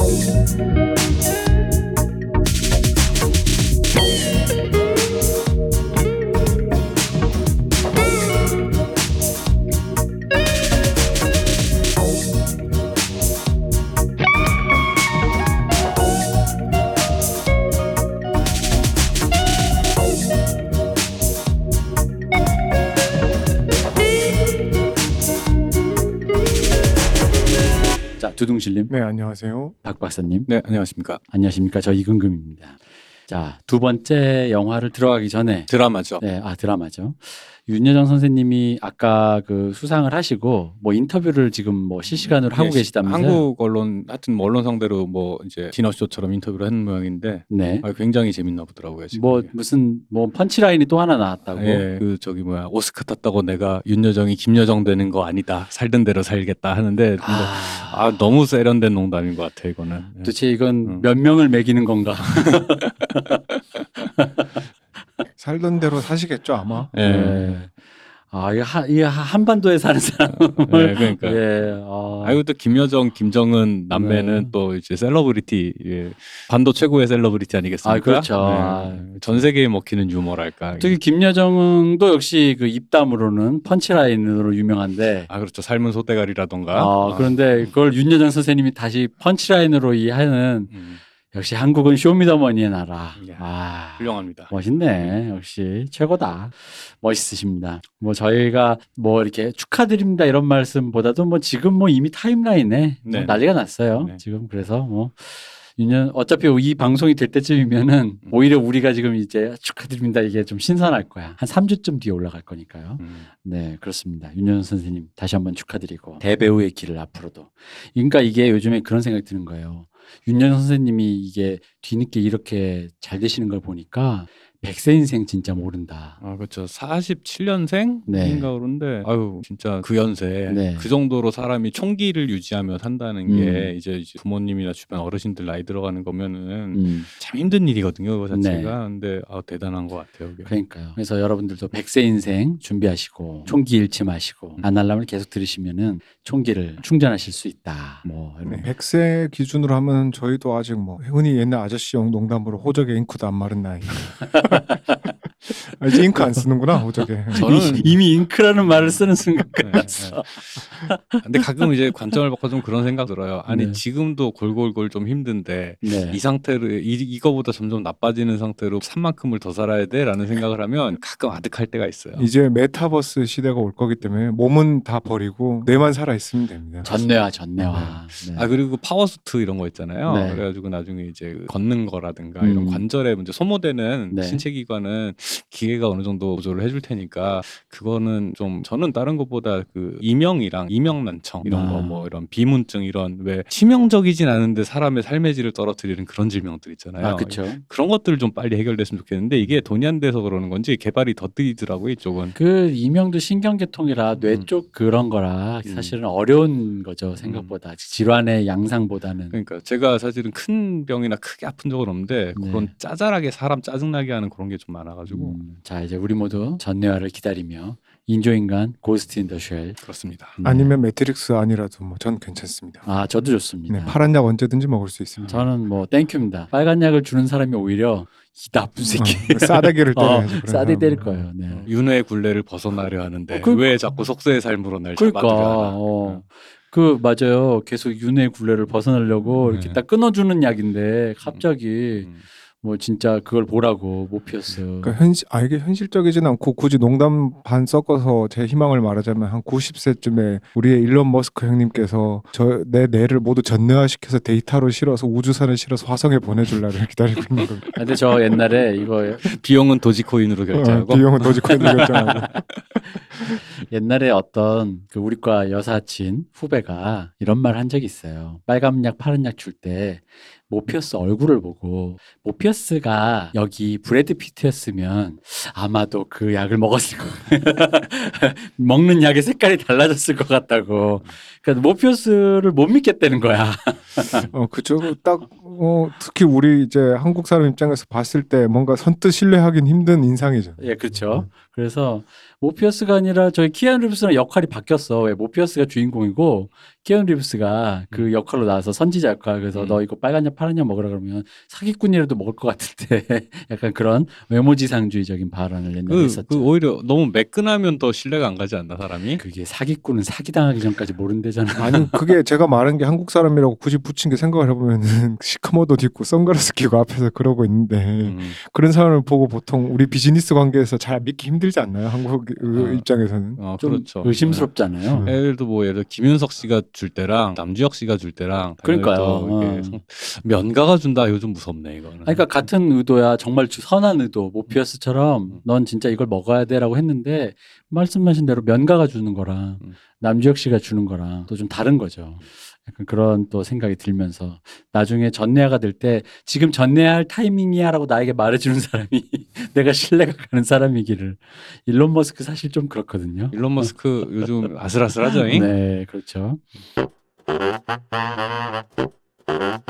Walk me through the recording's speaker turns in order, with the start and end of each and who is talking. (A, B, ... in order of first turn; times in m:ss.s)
0:28.2-0:28.9 A
0:28.9-0:29.8 B
0:29.8-0:30.5 A
0:30.5-0:31.2 C
0:31.3-0:32.8 A
0:33.3-0:35.7 A
0:35.7-0:36.2 C
0:36.2-0:43.4 A
0:42.1-0:49.5 C
0:47.5-0:47.8 A
0:49.1-0:51.8 A
0:51.6-1:01.0 C
0:57.2-0:58.0 A
1:00.2-1:03.4 A
1:02.5-1:04.1 C
1:04.2-1:04.6 A
1:05.4-1:06.9 B
1:06.9-1:07.6 C
1:07.0-1:07.7 A
1:08.3-1:12.4 A
1:10.3-1:11.4 C
1:12.2-1:21.0 C
1:13.9-1:14.5 A
1:17.8-1:19.1 A
1:20.8-1:25.3 A
1:25.3-1:27.7 C
1:26.7-1:30.7 A
1:30.7-1:31.0 C
1:31.3-2:06.2 A
1:33.2-1:33.5 C
1:34.0-1:35.2 C
1:43.0-1:44.2 C
1:53.0-1:53.3 C
2:06.2-2:20.5 C
2:08.1-2:08.5 A
2:10.5-2:10.9 A
2:13.3-2:13.7 A
2:16.7-2:17.1 A
2:18.3-2:18.7 A
2:20.5-2:28.7 A
2:28.5-2:34.8 B
2:34.3-2:34.8 A
2:35.6-2:37.9 B
2:35.9-2:36.4 A
2:37.0-2:41.7 A
2:37.3-2:38.0 C
2:39.6-2:52.3 C
2:43.5-2:43.8 A
2:45.8-2:46.2 A
2:52.2-2:56.9 B
2:56.8-2:58.5 A
2:57.8-3:22.4 C
3:00.1-3:00.4 A
3:02.4-3:02.8 A
3:04.1-3:04.4 A
3:11.4-3:12.1 A
3:17.0-3:17.6 A
3:22.4-3:29.4 A
3:25.6-3:26.0 C
3:27.2-3:27.5 C
3:29.3-3:35.4 C
3:32.4-3:32.7 A
3:35.1-3:39.8 A
3:39.8-3:40.4 C
3:40.4-3:40.8 A
3:40.4-3:42.9 B
3:42.9-3:44.0 A
3:43.7-3:45.4 B
3:45.3-3:51.7 A
3:48.9-3:51.3 B
3:51.6-3:56.2 C
3:53.3-3:53.7 A
3:55.0-4:02.1 A
3:59.4-3:59.8 C
4:02.0-4:02.2 C
4:02.6-4:05.0 A
4:04.8-4:17.8 B
4:17.4-4:17.7 C
4:17.8-4:19.2 A
4:19.2-4:22.4 C
4:20.5-4:22.4 B
4:21.5-4:22.0 A
4:23.6-4:44.3 A
4:44.3-4:51.2 B
4:50.6-5:06.5 A
4:59.5-4:59.8 C
5:05.9-5:09.2 C
5:09.2-5:11.9 A
5:11.6-5:23.4 B
5:18.0-5:18.4 C
5:22.4-5:32.3 C
5:23.6-5:25.1 A
5:24.9-5:25.2 B
5:28.6-5:29.8 A
5:32.0-5:53.7 A
5:53.3-5:55.5 C
5:55.3-5:56.4 A